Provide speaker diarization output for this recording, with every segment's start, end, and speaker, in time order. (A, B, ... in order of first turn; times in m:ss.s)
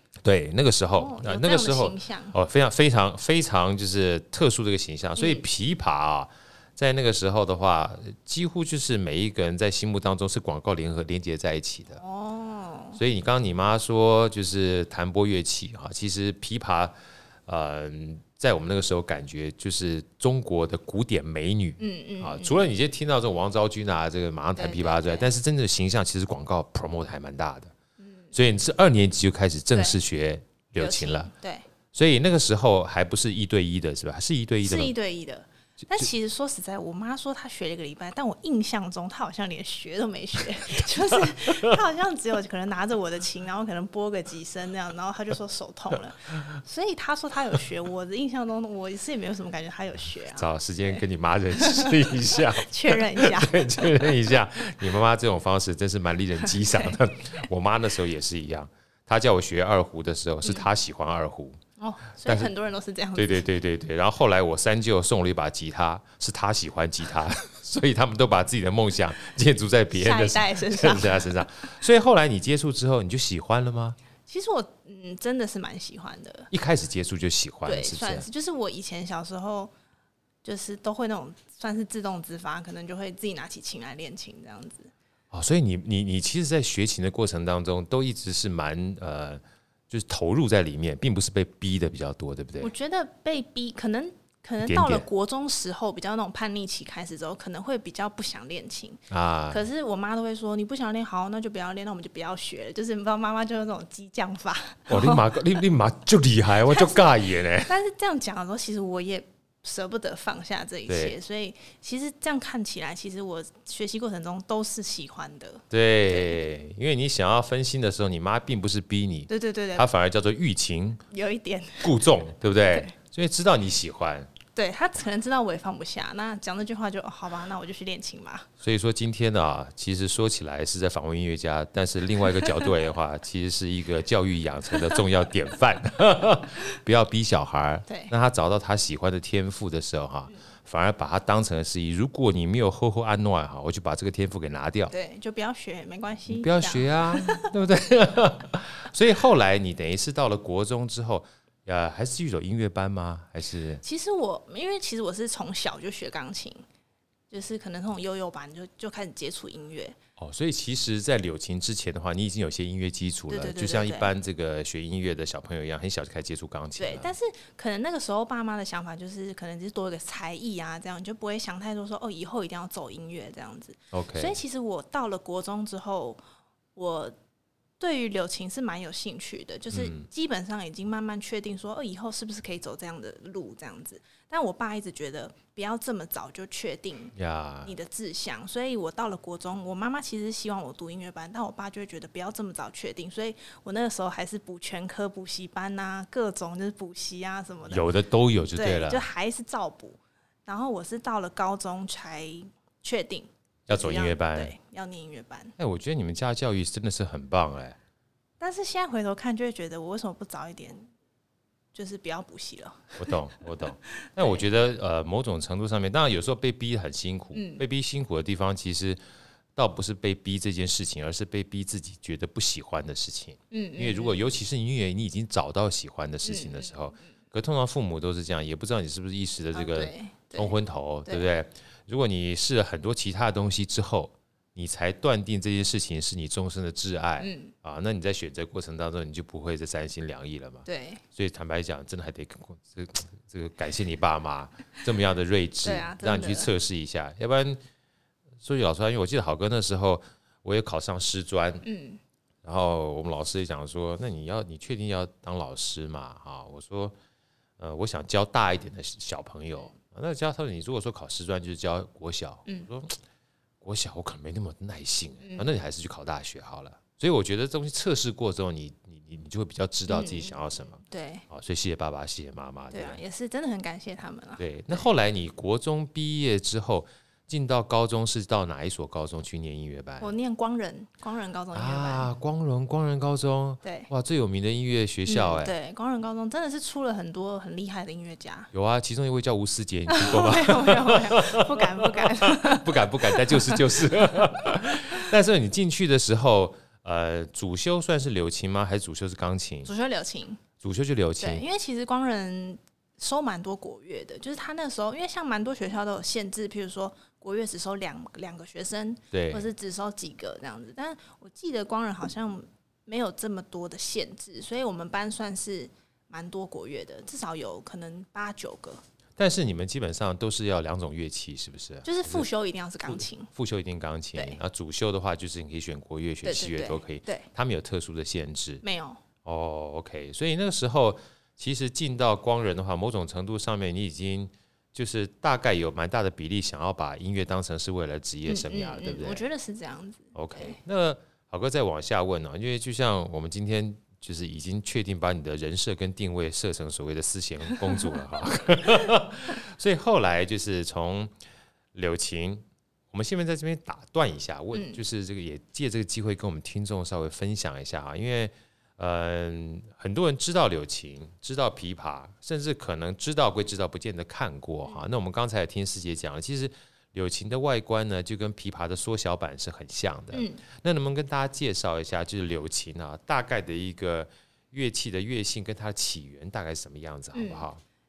0:00.2-0:12.0 A
0:00.9-0:02.3 B
0:05.2-0:05.4 B
0:12.0-0:13.0 B
0:13.0-0:16.9 A
0:17.5-0:27.7 A
0:21.8-0:22.7 B
0:24.6-0:25.3 B
0:28.0-0:28.3 B
0:28.3-0:31.3 A
0:30.8-0:31.6 B
0:31.9-0:34.9 A
0:34.6-0:51.0 B
0:50.3-1:01.6 A
0:51.5-0:54.1 B
0:56.4-0:57.0 B
1:01.8-1:03.4 B
1:02.2-1:02.5 A
1:03.1-1:14.0 A
1:09.9-1:11.4 B
1:14.3-1:16.5 B
1:16.5-1:18.3 A
1:17.6-1:19.7 B
1:20.4-1:24.9 B
1:25.3-1:32.7 A
1:32.6-1:45.3 B
1:34.6-1:35.0 A
1:39.1-1:39.6 A
1:44.9-1:47.7 A
1:46.7-1:47.0 B
1:47.6-1:56.4 B
1:50.9-1:51.1 A
1:55.7-2:01.0 A
1:59.3-1:59.9 B
2:01.1-2:02.0 B
2:01.8-2:04.3 A
2:04.5-2:08.5 B
2:08.6-2:24.9 A
2:17.9-2:18.1 B
2:24.9-2:27.5 B
2:26.3-2:33.8 A
2:33.8-2:36.6 B
2:37.3-2:40.0 B
2:40.2-2:47.1 A
2:43.3-2:44.1 B
2:46.8-2:56.2 B
2:53.9-2:54.4 A
2:56.7-2:57.1 B
2:57.8-3:17.9 B
2:59.7-3:00.0 A
3:07.1-3:07.7 A
3:17.7-3:19.0 A
3:18.5-3:25.5 B
3:23.7-3:24.5 A
3:25.6-3:27.8 A
3:28.4-3:30.9 B
3:31.7-3:33.1 B
3:33.0-3:39.0 A
3:34.0-3:34.4 B
3:37.3-3:37.6 B
3:39.6-4:07.6 A
3:43.5-3:44.2 B
3:46.2-3:46.7 B
3:49.5-3:51.2 B
3:57.2-3:57.5 B
4:00.6-4:01.0 B
4:05.6-4:06.5 B
4:08.4-4:11.6 A
4:11.6-4:12.0 B
4:12.4-4:16.9 A
4:17.6-4:23.0 A
4:23.6-4:33.0 A
4:25.2-4:25.5 B
4:29.9-4:31.2 B
4:32.7-4:34.9 B
4:34.4-4:40.1 A
4:40.0-4:42.1 B
4:41.5-4:45.5 A
4:43.6-4:43.9 B
4:45.0-4:48.5 B
4:48.5-4:59.7 A
4:49.9-4:54.2 B
4:59.6-5:00.4 B
5:00.6-5:01.4 A
5:01.2-5:18.8 B
5:09.1-5:09.5 A
5:19.2-5:22.3 A
5:21.8-5:23.3 B
5:22.9-5:28.6 A
5:24.1-5:24.4 B
5:26.2-5:27.3 B
5:28.6-5:29.0 B
5:29.2-5:39.2 A
5:38.2-5:40.6 B
5:40.1-5:51.1 A
5:51.7-6:17.6 A
5:54.5-5:54.8 B
6:10.1-6:10.4 B
6:17.1-6:17.5 B